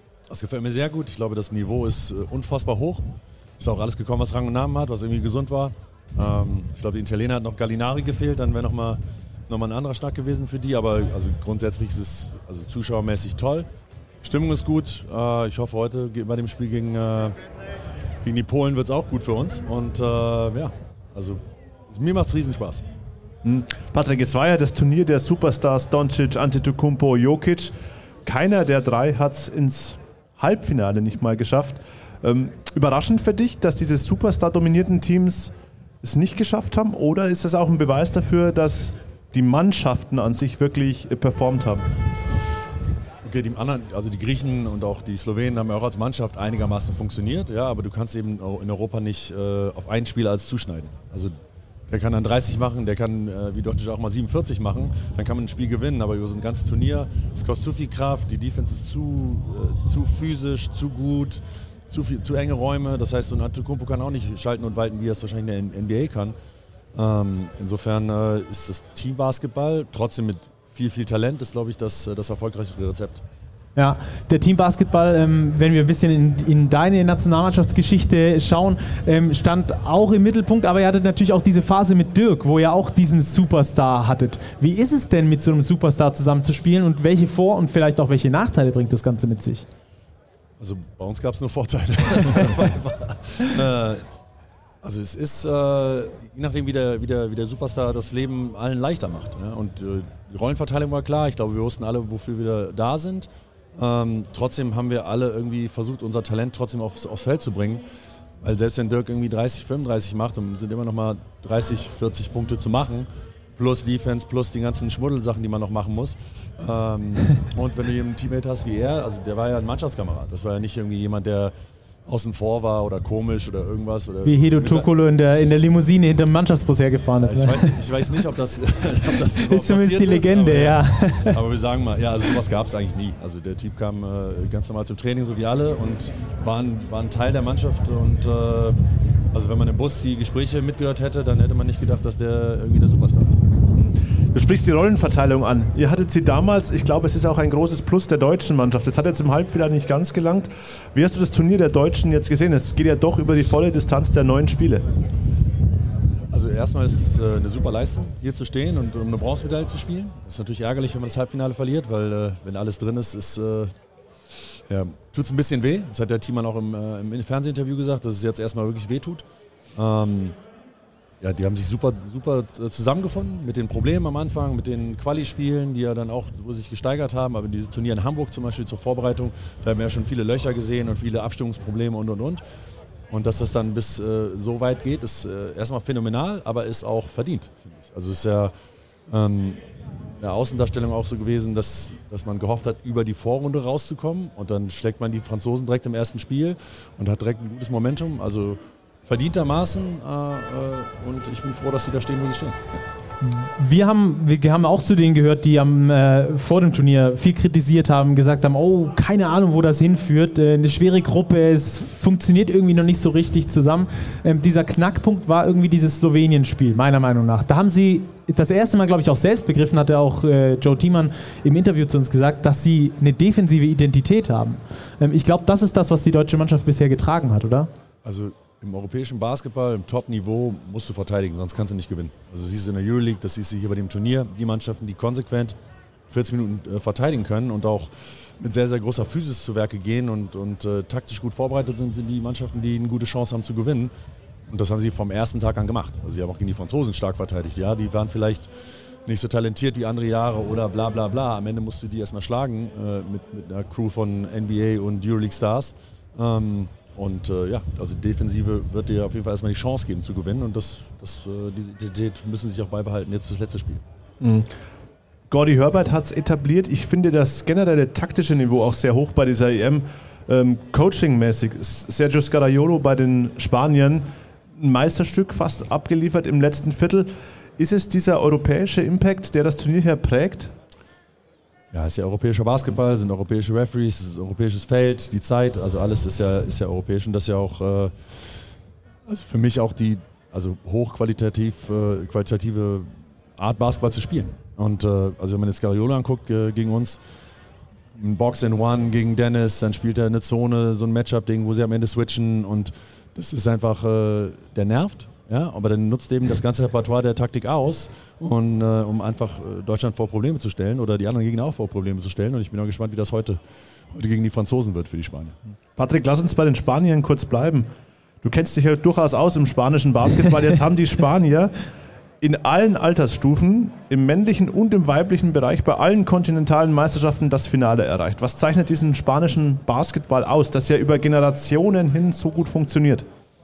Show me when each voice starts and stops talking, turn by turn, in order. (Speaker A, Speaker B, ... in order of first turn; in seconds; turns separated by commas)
Speaker A: 0.3-13.7, Speaker A: 14.2-17.4, Speaker A: 18.2-22.8, Speaker B: 23.4-27.7, Speaker B: 28.2-41.8, Speaker A: 43.2-51.3, Speaker A: 51.9-66.3, Speaker A: 66.9-73.2, Speaker C: 73.8-89.7, Speaker A: 90.6-94.0, Speaker A: 94.8-107.8, Speaker A: 108.4-121.5, Speaker A: 122.1-124.9, Speaker C: 124.2-127.8, Speaker A: 127.2-138.8, Speaker C: 129.3-131.4, Speaker A: 139.3-143.5, Speaker B: 143.8-154.8, Speaker A: 156.3-163.7, Speaker A: 164.3-169.2, Speaker A: 169.8-170.4, Speaker A: 171.2-182.4, Speaker A: 183.1-188.5, Speaker A: 189.1-202.6, Speaker C: 203.2-227.7, Speaker A: 228.0-235.6, Speaker A: 236.1-243.9, Speaker A: 244.5-248.5, Speaker A: 249.0-263.8, Speaker B: 264.2-264.5, Speaker B: 265.3-280.5, Speaker A: 281.7-287.9, Speaker A: 289.1-297.0, Speaker A: 297.9-313.4, Speaker A: 313.9-315.4, Speaker B: 315.8-317.7, Speaker B: 318.2-321.6, Speaker B: 322.2-333.1